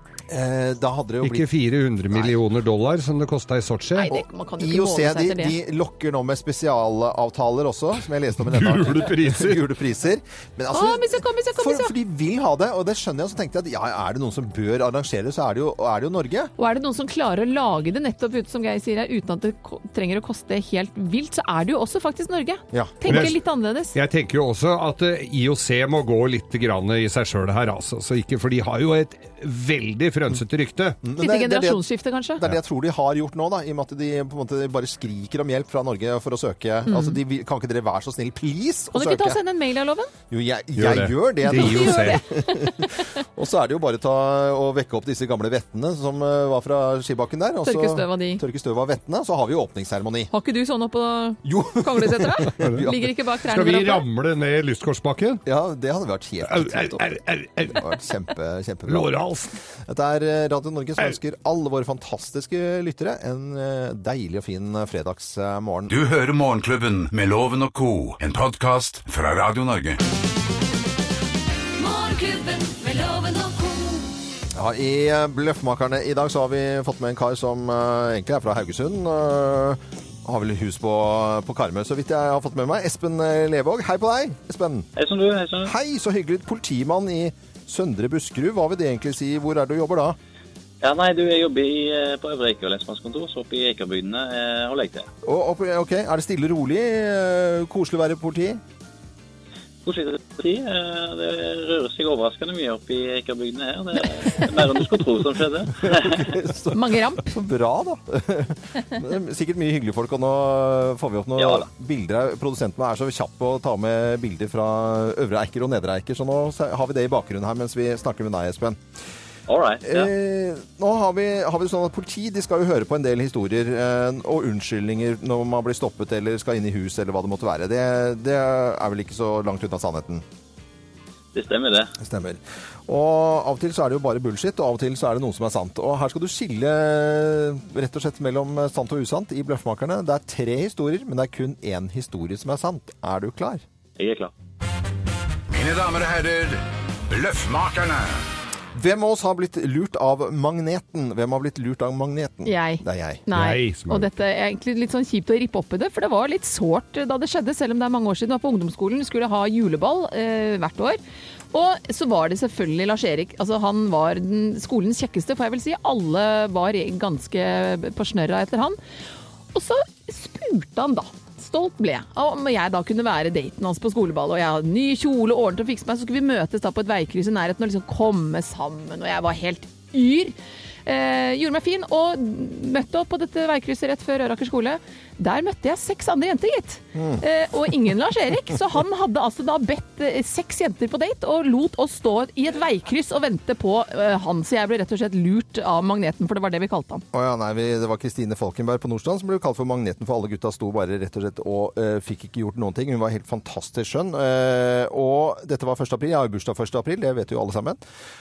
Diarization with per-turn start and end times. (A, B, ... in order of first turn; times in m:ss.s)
0:00.3-0:01.5 A
0:01.2-0:04.1 B
0:03.9-0:05.6 C
0:04.1-0:16.5 A
0:08.4-0:09.6 B
0:10.7-0:11.9 C
0:16.6-0:24.0 C
0:22.7-0:23.3 A
0:23.1-0:23.4 B
0:23.9-0:31.0 B
0:31.0-0:31.8 A
0:31.2-0:32.4 C
0:32.4-0:39.4 A
0:36.9-0:37.2 C
0:38.9-0:40.1 C
0:40.3-0:50.3 A
0:40.8-0:42.2 B
0:41.4-0:43.0 C
0:47.6-0:48.4 C
0:50.3-0:54.0 C
0:51.4-0:53.0 A
0:52.6-0:52.9 B
0:53.4-0:55.4 B
0:55.5-0:57.1 A
0:56.5-0:57.9 B
0:57.8-0:59.2 A
0:58.9-0:59.6 B
0:59.7-1:05.9 A
1:05.9-1:10.0 D
1:11.8-1:14.1 E
1:14.5-1:24.9 A
1:25.0-1:25.7 F
1:25.6-1:30.2 A
1:30.8-1:35.1 F
1:35.2-1:38.6 A
1:39.8-1:46.4 F
1:45.8-1:58.8 A
1:46.7-1:47.3 C
1:51.4-1:51.7 F
1:59.5-2:00.1 F
1:59.8-2:10.2 A
2:11.3-2:11.9 F
2:12.0-2:23.6 A
2:24.0-2:24.3 F
2:25.5-2:28.2 D
2:28.7-2:33.2 A
2:32.5-2:41.0 C
2:33.3-2:34.1 B
2:41.5-2:48.8 C
2:49.5-3:17.0 C
3:07.0-3:07.2 A
3:17.1-3:27.8 A